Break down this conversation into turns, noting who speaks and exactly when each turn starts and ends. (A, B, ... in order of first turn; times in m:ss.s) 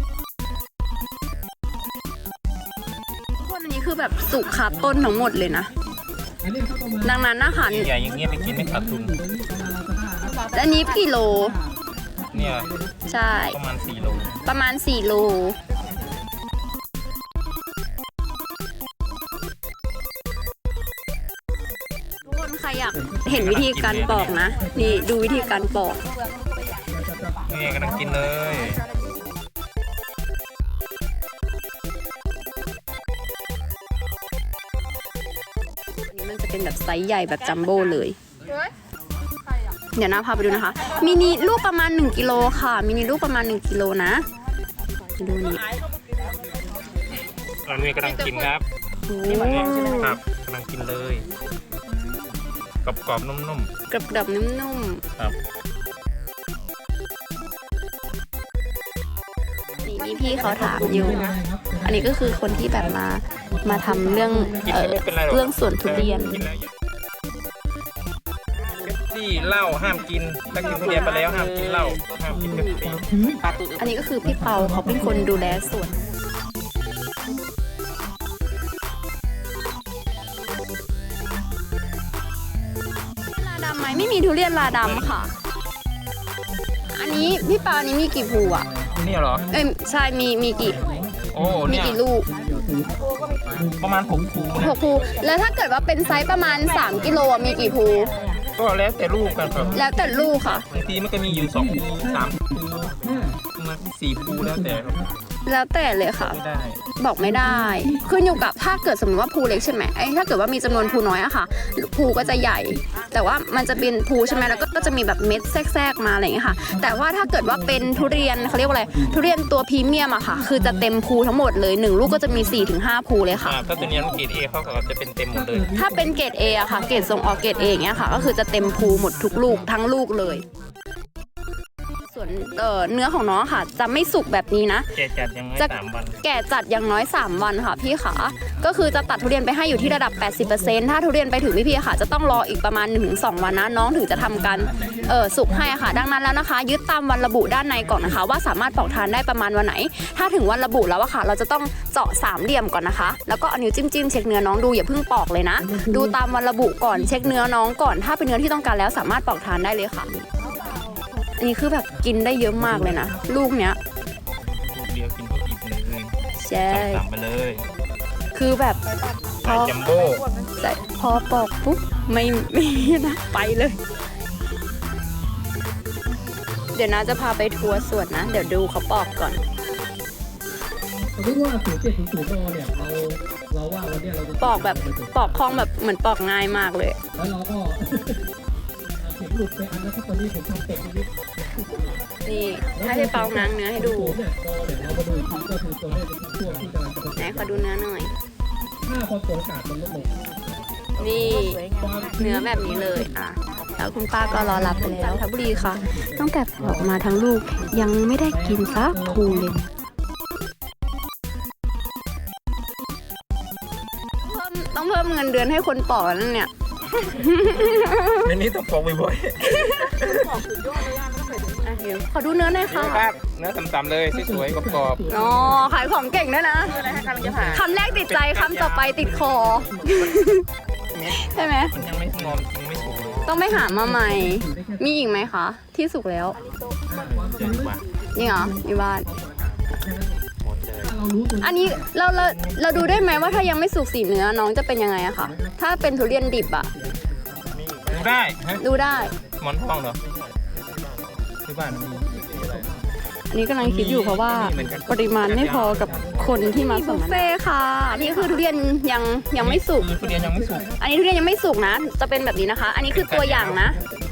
0:03.4-0:05.7 A
0:06.5-0:06.9 B
0:07.0-0:07.9 A
0:07.7-0:09.2 C
0:09.1-0:10.4 B
0:10.5-0:11.6 A
0:12.3-0:12.7 C
0:12.6-0:13.0 B
0:13.1-0:13.6 A
0:13.5-0:14.3 C
0:14.4-0:15.6 A
0:22.3-0:26.0 A
0:23.3-0:24.4 C
0:27.5-0:28.8 C
0:36.1-0:38.2 A
0:40.0-0:44.3 A
0:45.2-0:45.6 A
0:47.7-0:48.6 C
0:49.0-0:50.1 A
0:49.4-0:51.3 C
0:52.8-0:53.7 C
0:53.9-0:55.0 A
0:59.8-1:01.3 A
1:00.8-1:01.8 B
1:01.8-1:06.4 A
1:04.7-1:06.7 C
1:08.8-1:13.8 C
1:10.8-1:11.2 A
1:12.5-1:12.8 A
1:13.1-1:13.4 B
1:13.8-1:16.0 A
1:23.4-1:25.3 A
1:24.7-1:25.1 C
1:26.9-1:28.7 A
1:29.0-1:29.4 C
1:29.5-1:30.8 A
1:31.3-1:32.0 C
1:31.6-1:32.3 A
1:33.8-1:34.8 C
1:34.6-1:38.1 A
1:38.6-1:39.8 C
1:39.7-1:40.7 A
1:40.5-1:42.7 C
1:43.5-1:45.0 C
1:45.5-1:46.4 A
1:46.1-1:46.8 C
1:47.0-2:03.6 A
2:03.4-2:05.7 C
2:05.8-2:10.4 A
2:12.1-2:14.9 A
2:15.0-2:16.2 C
2:15.6-2:40.3 A
2:41.4-2:43.8 A
2:44.7-2:46.2 C
2:46.4-2:47.0 A
2:46.7-2:47.7 C
2:48.3-2:48.8 A
2:49.4-2:49.7 A
2:49.4-2:50.3 C
2:50.6-2:53.8 A
2:56.7-2:59.4 A
3:01.3-3:04.3 B
3:04.4-3:07.0 A
3:07.4-3:07.8 B
3:09.3-3:11.1 B
3:12.3-3:14.2 A
3:14.2-3:17.0 B
3:17.2-3:18.1 A
3:19.1-3:20.0 B
3:21.0-3:29.6 A
3:34.2-3:38.3 A
3:38.2-3:40.4 C
3:39.5-3:39.9 A
3:41.6-3:43.0 A
3:42.7-3:45.0 C
3:45.1-3:46.8 A
3:47.5-3:50.4 A
3:48.0-3:49.7 C
3:50.9-3:53.4 C
3:51.1-3:51.8 A
3:53.2-3:56.4 A
3:57.2-3:57.8 C
3:58.2-3:59.1 A
4:00.4-4:00.9 C
4:01.0-4:01.3 B
4:01.4-4:06.7 A
4:02.3-4:02.6 C
4:07.6-4:08.6 C
4:08.6-4:09.2 A
4:09.2-4:10.0 C
4:11.5-4:12.7 C
4:13.3-4:19.9 A
4:13.6-4:16.5 C
4:15.9-4:16.6 B
4:19.4-4:20.7 C
4:20.8-4:23.8 A
4:22.9-4:23.7 C